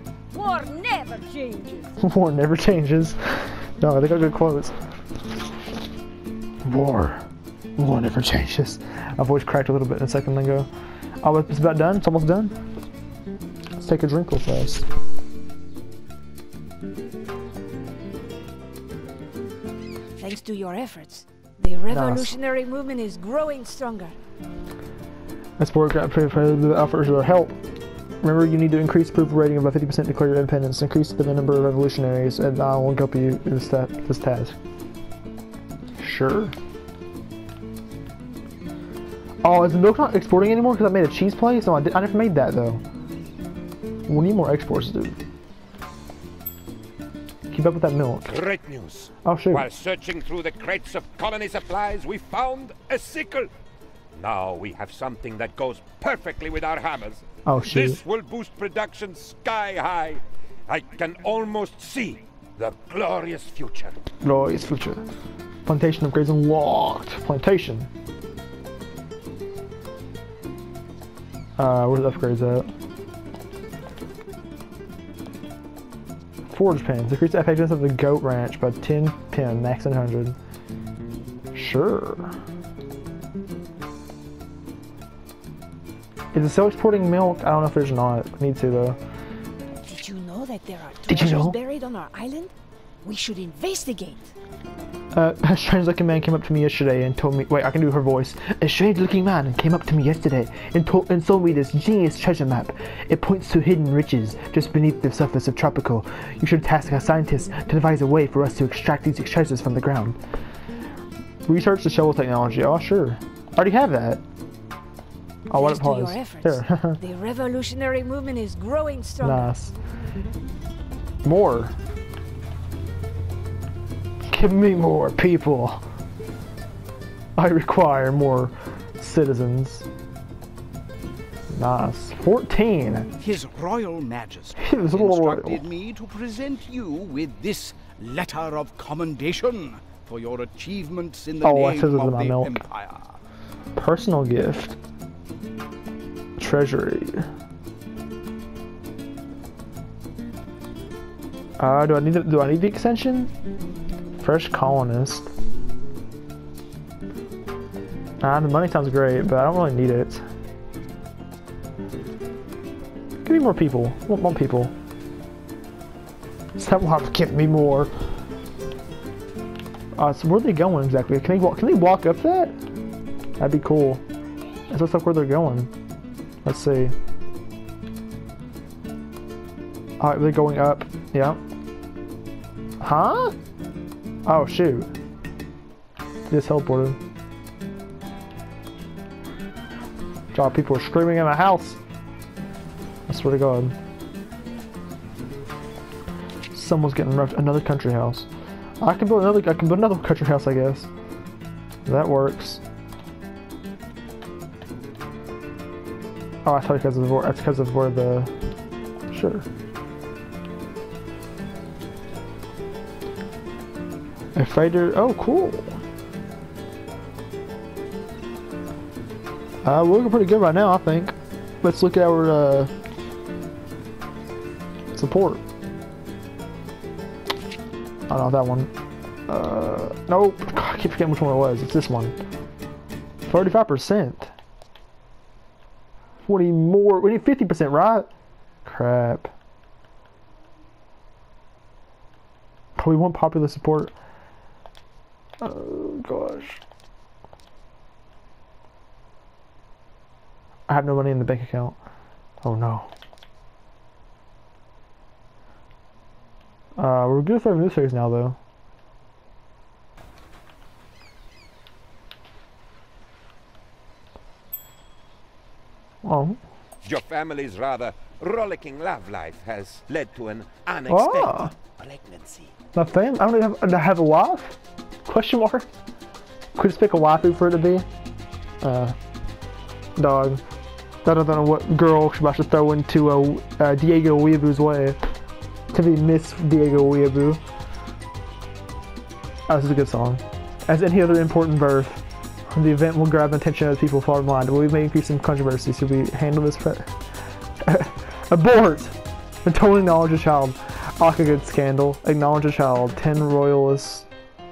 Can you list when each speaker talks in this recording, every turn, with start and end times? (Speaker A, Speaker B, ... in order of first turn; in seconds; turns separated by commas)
Speaker A: 0.3-1.9, Speaker B: 2.0-4.8, Speaker B: 6.7-7.2, Speaker B: 7.8-10.7, Speaker B: 11.2-12.6, Speaker B: 13.8-14.9, Speaker A: 20.2-24.1, Speaker B: 21.9-22.4, Speaker B: 25.6-27.6, Speaker B: 28.2-34.6, Speaker B: 36.0-36.5, Speaker B: 39.4-42.8, Speaker B: 44.1-45.2, Speaker B: 47.5-48.4, Speaker C: 48.3-53.5, Speaker B: 49.2-49.7, Speaker C: 54.1-64.0, Speaker B: 57.5-58.0, Speaker B: 64.2-65.0, Speaker B: 65.7-67.9, Speaker B: 71.6-72.7, Speaker B: 76.5-80.4, Speaker B: 81.5-82.4, Speaker B: 86.3-89.0, Speaker A: 89.8-94.3, Speaker B: 91.1-91.6, Speaker B: 95.1-110.2, Speaker B: 111.5-114.2, Speaker B: 115.5-117.0, Speaker A: 115.5-119.5, Speaker B: 119.2-119.7, Speaker B: 121.2-121.8, Speaker B: 124.3-125.8, Speaker B: 127.4-129.9, Speaker B: 131.5-133.1, Speaker D: 133.2-143.2, Speaker B: 134.6-135.6, Speaker B: 141.4-142.6, Speaker B: 143.8-144.8, Speaker B: 146.4-147.3, Speaker B: 151.6-153.3, Speaker B: 154.2-155.3, Speaker B: 158.2-160.2, Speaker B: 163.2-164.7, Speaker B: 166.6-167.9, Speaker B: 170.0-172.6, Speaker B: 173.4-174.0, Speaker B: 174.7-175.7, Speaker B: 176.4-176.9, Speaker B: 180.0-181.4, Speaker B: 182.8-183.4, Speaker B: 184.2-184.9, Speaker B: 186.3-187.0, Speaker B: 190.3-191.8, Speaker B: 193.1-193.8, Speaker B: 196.5-198.3, Speaker B: 198.8-200.9, Speaker B: 201.9-202.6, Speaker B: 206.4-208.3, Speaker B: 209.1-209.5, Speaker B: 214.3-215.8, Speaker B: 219.6-222.7, Speaker B: 224.9-225.4, Speaker B: 228.1-228.7, Speaker B: 229.3-232.1, Speaker B: 233.3-234.3, Speaker B: 236.2-238.1, Speaker B: 238.7-239.3, Speaker B: 242.8-243.9, Speaker B: 245.4-246.6, Speaker B: 250.7-251.8, Speaker B: 252.4-252.9, Speaker B: 256.8-258.4, Speaker B: 266.0-266.4, Speaker C: 266.8-272.5, Speaker B: 270.9-271.5, Speaker B: 272.7-275.7, Speaker B: 276.6-277.9, Speaker B: 278.6-279.0, Speaker B: 280.0-280.4, Speaker B: 281.0-285.0, Speaker B: 285.7-287.4, Speaker B: 289.5-297.0, Speaker B: 297.6-304.1